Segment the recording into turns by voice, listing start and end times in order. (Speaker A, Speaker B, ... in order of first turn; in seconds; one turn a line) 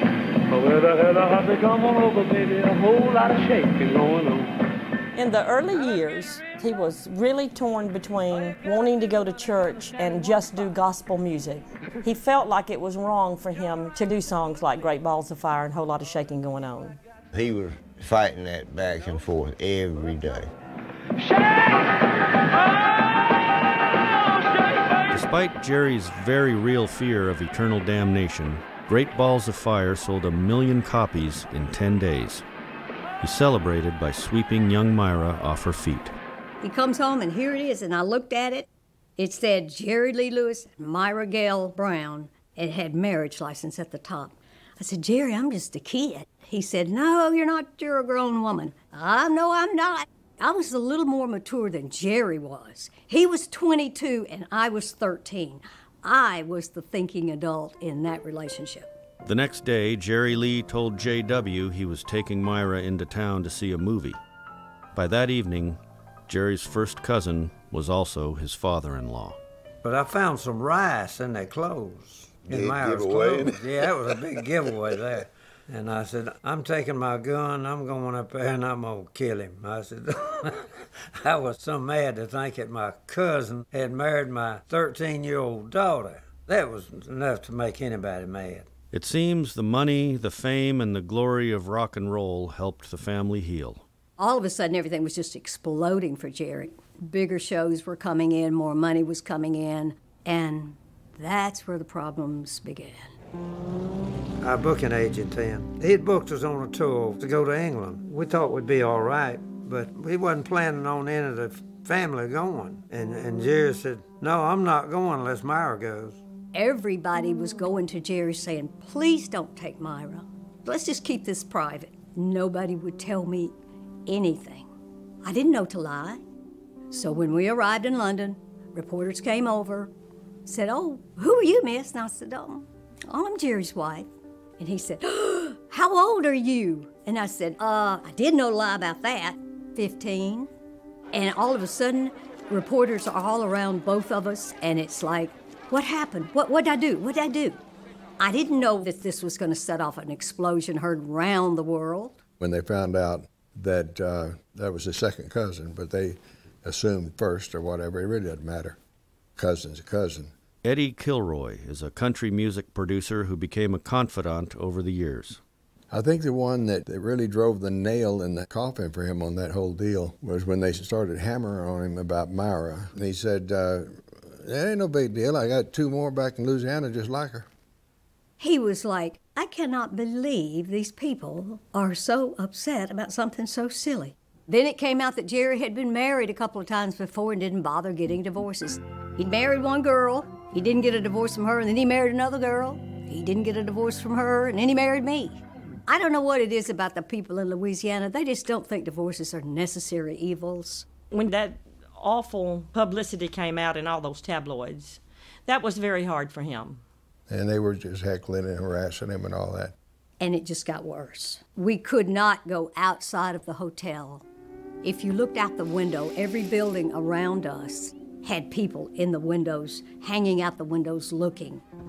Speaker A: 0.5-4.5
Speaker B: 5.1-17.0
Speaker C: 17.3-20.5
Speaker D: 25.1-32.4
Speaker D: 33.2-36.1
Speaker E: 36.6-58.9
Speaker D: 59.2-64.2
Speaker D: 64.9-69.4
Speaker F: 69.8-80.7
Speaker C: 72.5-75.0
Speaker F: 81.2-88.7
Speaker D: 88.9-93.8
Speaker E: 94.2-103.1
Speaker F: 104.4-116.2
Speaker E: 116.5-123.5
Speaker E: 124.1-124.7
Speaker E: 125.2-126.2
Speaker E: 126.9-129.9
Speaker E: 130.4-140.5
Speaker E: 141.1-147.6
Speaker E: 148.2-152.2
Speaker G: 152.4-158.8
Speaker G: 159.4-160.3
Speaker D: 160.6-165.4
Speaker G: 165.9-177.4
Speaker E: 178.4-200.9
Speaker B: 201.1-206.8
Speaker G: 207.3-209.7
Speaker E: 210.2-214.2
Speaker E: 214.8-221.6